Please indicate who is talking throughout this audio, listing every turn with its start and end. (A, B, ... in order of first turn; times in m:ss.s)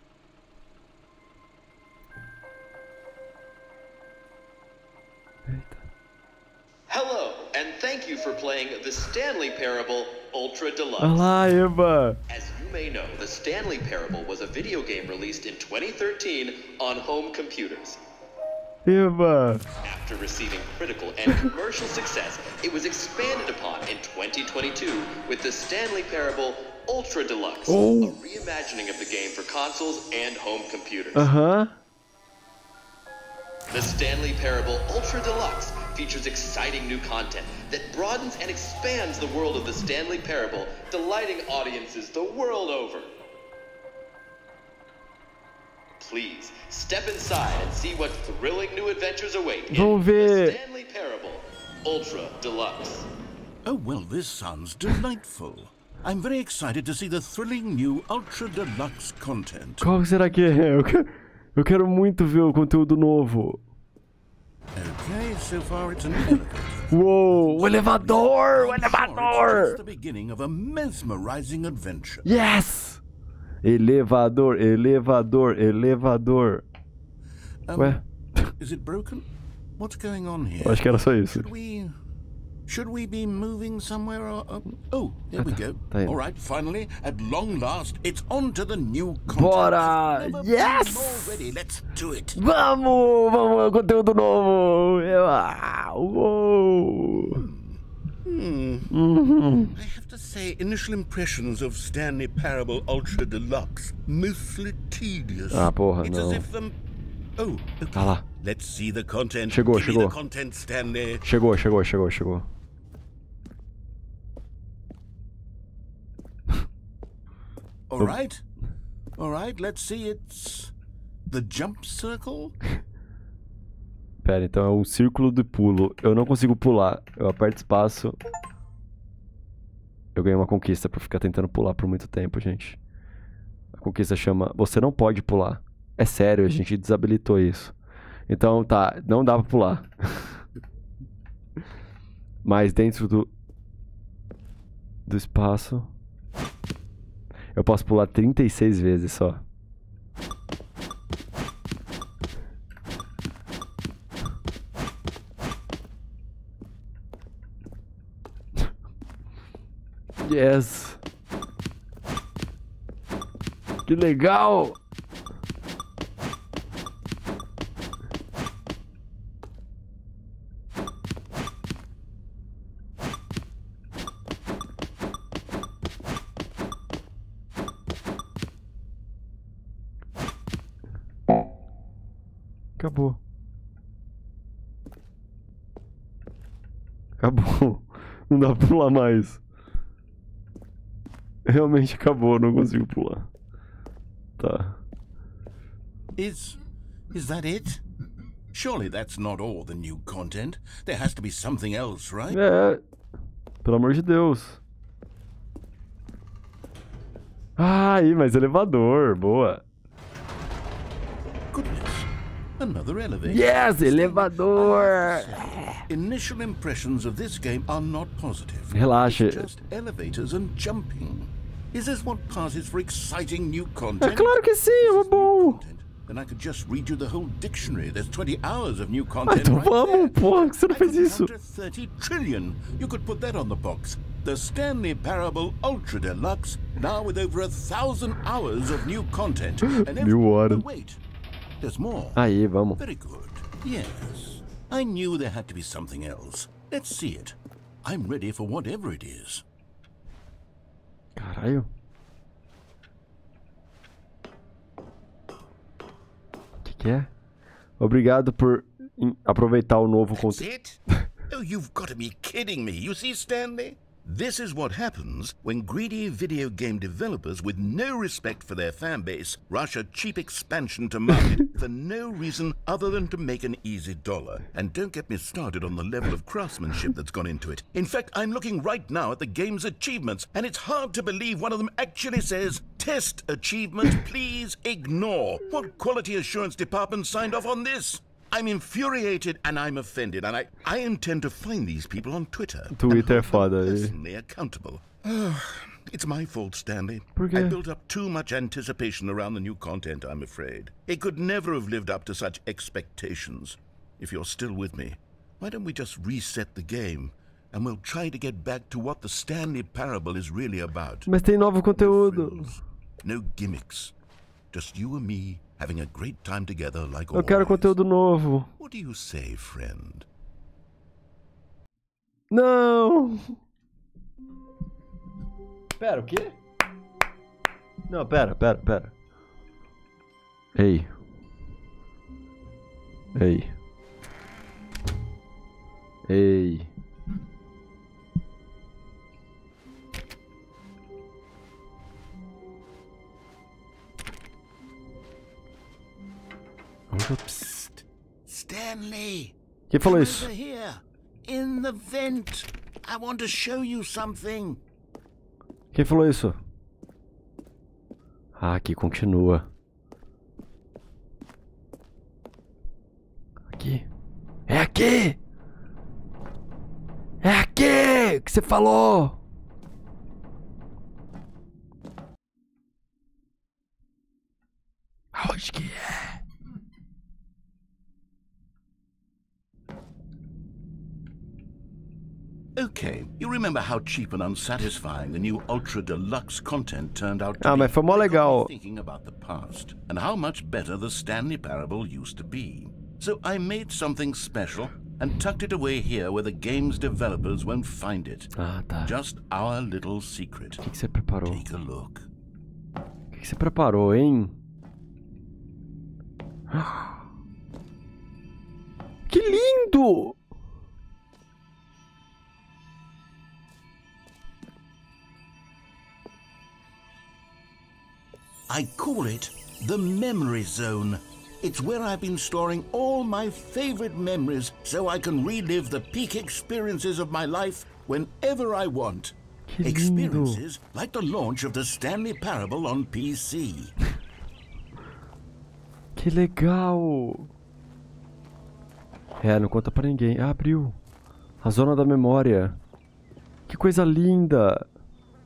0:05.5-0:05.8 A
0:06.9-0:11.3 B
0:11.0-0:12.2 A
0:12.3-0:18.0 B
0:18.9-0:19.6 A
0:19.8-0:31.3 B
0:27.7-0:28.2 A
0:31.2-0:31.8 A
0:33.7-0:43.1 B
0:46.0-0:53.1 B
0:49.7-0:50.6 A
0:53.6-0:59.9 C
0:59.8-1:03.6 A
1:04.8-1:12.3 C
1:06.9-1:09.8 A
1:12.2-1:13.0 A
1:13.6-1:16.6 A
1:17.7-1:19.3 C
1:17.8-1:18.5 A
1:19.8-1:22.0 C
1:20.6-1:21.5 A
1:22.7-1:32.4 C
1:25.9-1:26.2 A
1:29.3-1:31.4 A
1:32.4-1:37.4 A
1:37.3-1:38.9 C
1:38.9-1:39.8 A
1:39.8-1:46.8 C
1:45.5-1:46.5 A
1:47.4-1:51.2 C
1:47.9-1:48.2 A
1:49.5-1:50.2 A
1:51.2-1:52.5 A
1:57.9-1:58.4 C
1:59.2-2:00.7 C
2:01.3-2:02.6 C
2:04.2-2:08.2 A
2:10.2-2:12.8 A
2:13.7-2:17.8 A
2:18.3-2:20.4 A
2:22.4-2:23.3 A
2:25.1-2:25.9 A
2:27.6-2:29.4 A
2:40.2-2:41.0 A
2:43.9-2:44.8 A
3:02.8-3:03.2 A
3:07.2-3:09.4 A
3:11.5-3:13.3 A
3:14.4-3:14.8 A
3:16.2-3:16.6 C
3:17.1-3:17.8 C
3:18.5-3:22.4 C
3:22.3-3:22.8 A
3:23.6-3:24.6 A
3:27.6-3:29.6 A
3:31.5-4:01.0 C
3:33.2-3:35.8 A
3:38.7-3:39.5 A
3:44.0-3:45.6 A
3:49.3-3:51.3 A
3:59.7-4:00.6 A
4:01.6-4:02.2 C
4:02.2-4:02.8 A
4:02.8-4:09.4 C
4:11.2-4:11.7 A
4:16.6-4:17.1 A
4:17.8-4:20.4 A
4:20.2-5:11.1 C
4:52.7-4:53.9 A
4:57.2-4:57.6 A
5:11.1-5:12.6 A
5:11.8-5:13.9 C
5:14.5-5:17.8 C
5:17.1-5:18.5 A
5:18.6-5:20.1 C
5:22.3-5:23.4 A
5:25.8-5:26.4 A
5:27.9-5:28.9 A
5:30.6-5:30.9 A
5:33.2-5:33.5 A
5:36.1-5:36.7 A
5:46.9-5:47.2 A
5:47.2-5:54.6 C
5:49.7-5:50.3 A
5:55.7-5:56.4 A
5:58.4-5:59.5 A
6:03.5-6:03.9 A
6:04.5-6:05.2 A
6:07.2-6:09.2 A
6:15.1-6:16.2 A
6:22.6-6:38.3 C
6:27.4-6:28.5 A
6:38.4-6:38.9 A
6:38.8-6:40.6 C
6:40.6-6:41.4 A
6:41.2-6:42.1 C
6:43.1-6:44.4 A
6:46.5-6:47.1 A
6:49.1-6:50.2 A
6:58.5-7:13.7 C
7:09.5-7:10.4 A
7:16.0-7:17.3 A
7:19.2-7:20.8 A
7:21.4-7:22.6 A
7:23.5-7:24.7 A